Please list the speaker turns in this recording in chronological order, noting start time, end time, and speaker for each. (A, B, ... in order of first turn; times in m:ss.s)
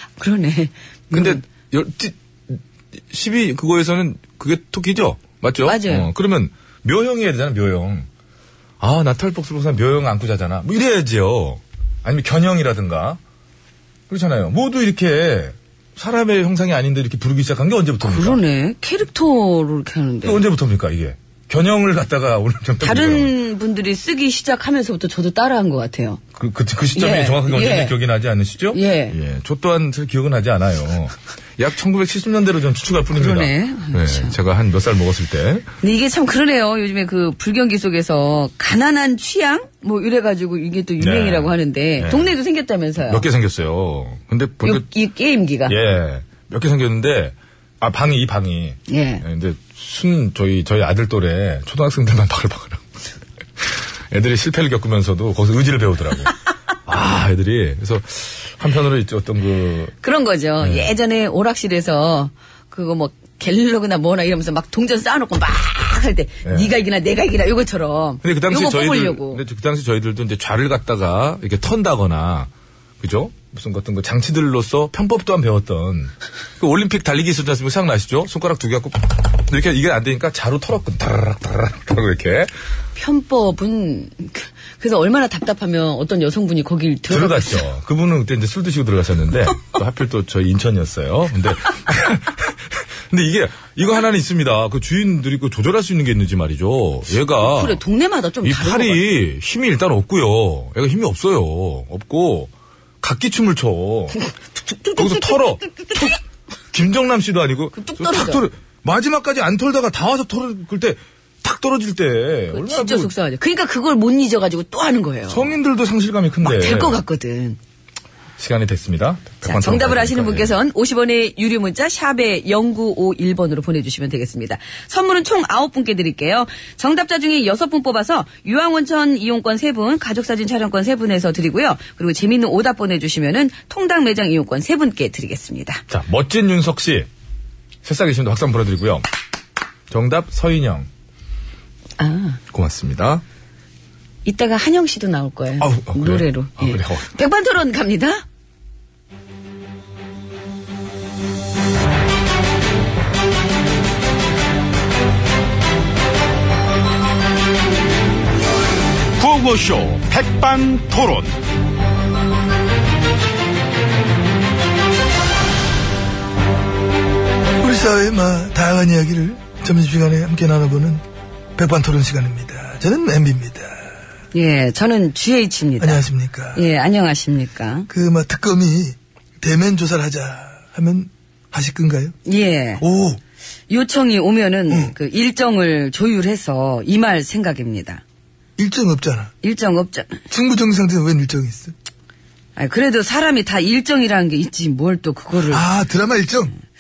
0:00.2-0:01.4 A
0:01.1-0:08.1 B
0:05.6-0:06.1 A
0:08.8-0:13.2 B
0:14.1-0:18.4 B
0:18.0-0:20.4 A
0:20.2-0:23.3 B
0:22.8-0:26.2 A
0:26.4-0:35.7 B
0:26.9-0:27.9 A
0:28.7-0:29.2 A
0:33.2-0:34.4 A
0:35.8-0:43.3 A
0:41.0-0:42.3 B
0:43.0-0:44.8 B
0:44.6-0:45.8 A
0:45.7-0:52.8 B
0:48.9-0:49.2 A
0:53.6-0:56.3 B
0:56.8-0:59.9 B
1:00.0-1:09.4 A
1:00.6-1:00.9 B
1:08.2-1:22.5 B
1:23.0-1:27.6 A
1:27.1-1:37.8 B
1:37.4-1:39.0 A
1:38.4-1:44.2 B
1:44.2-1:46.1 A
1:45.0-1:46.2 B
1:46.7-1:53.1 B
1:47.7-1:48.4 A
1:52.5-1:55.5 A
1:55.3-1:57.0 B
1:56.4-1:57.6 A
1:58.4-2:00.5 B
1:59.4-2:15.8 A
2:15.9-2:17.1 B
2:17.8-2:19.1 B
2:19.9-2:20.9 B
2:22.0-2:22.4 A
2:22.5-2:23.2 B
2:24.2-2:28.2 A
2:25.6-2:27.1 B
2:39.2-2:41.3 B
2:47.6-2:51.0 C
2:51.6-2:53.9 C
2:54.3-2:57.9 A
2:55.8-2:56.6 C
2:57.9-3:02.2 C
3:02.3-3:02.8 A
3:02.8-3:03.2 C
3:03.7-3:08.0 A
3:08.6-3:09.3 C
3:09.4-3:10.2 A
3:10.3-3:11.7 C
3:12.6-3:15.7 A
3:15.4-3:16.5 C